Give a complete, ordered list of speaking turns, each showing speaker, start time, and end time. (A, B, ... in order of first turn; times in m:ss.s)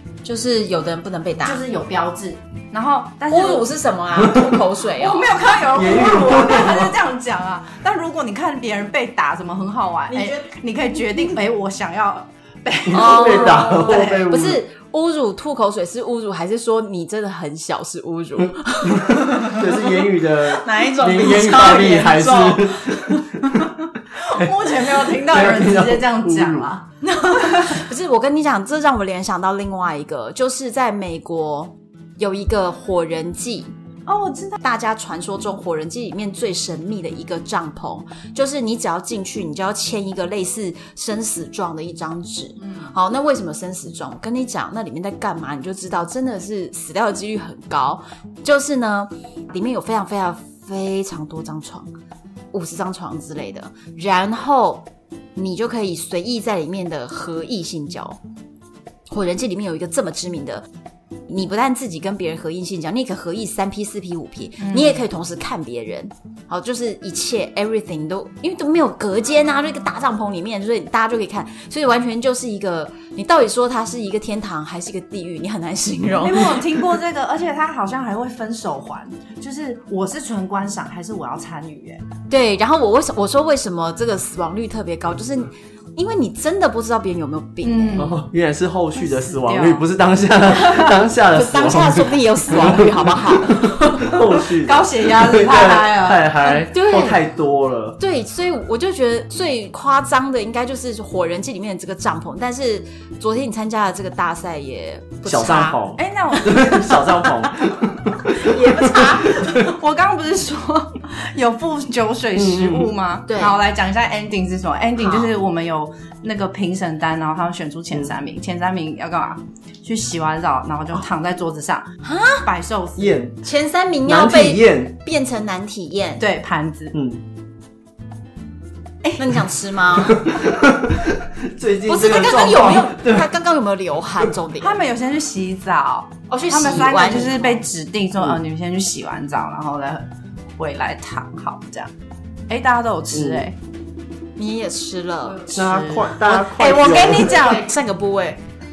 0:00.2-0:01.6 A
0:01.4-0:03.7 B
0:03.3-0:05.4 A
0:04.2-0:04.6 C
0:05.0-0:14.3 B
0:05.7-0:07.0 C
0:10.1-0:10.5 A
0:12.9-0:14.6 C
0:12.9-0:19.9 A
0:18.8-0:23.6 C
0:20.4-0:23.2 A
0:24.2-0:26.9 B
0:24.3-0:26.7 C
0:27.0-0:33.7 A
0:27.4-0:27.8 B
0:34.1-0:34.6 B
0:34.6-0:51.9 A
0:52.5-0:58.2 A
0:59.1-1:00.6 A
1:01.3-1:16.6 A
1:04.6-1:05.0 B
1:16.2-1:22.0 B
1:22.3-1:28.1 A
1:27.6-1:28.2 B
1:28.0-1:38.0 C
1:29.0-1:29.8 B
1:30.6-1:34.1 A
1:34.5-1:36.3 B
1:36.4-1:37.2 A
1:38.0-1:45.8 A
1:45.3-1:49.7 C
1:46.0-1:47.4 B
1:48.3-1:49.6 A
1:49.3-2:01.9 B
1:52.4-1:52.9 C
1:53.3-1:53.6 A
1:55.0-1:55.3 A
2:02.0-2:02.4 A
2:02.4-2:03.2 B
2:03.0-2:03.5 C
2:03.4-2:06.2 A
2:04.0-2:05.0 C
2:06.2-2:06.9 B
2:06.9-2:07.2 C
2:09.2-2:10.3 A
2:10.0-2:13.3 C
2:11.9-2:14.8 A
2:14.6-2:20.1 B
2:16.3-2:17.6 A
2:20.6-2:21.9 B
2:22.5-2:23.6 B
2:23.1-2:23.4 C
2:24.4-2:25.7 A
2:25.4-2:27.7 B
2:25.5-2:27.5 C
2:26.2-2:28.4 A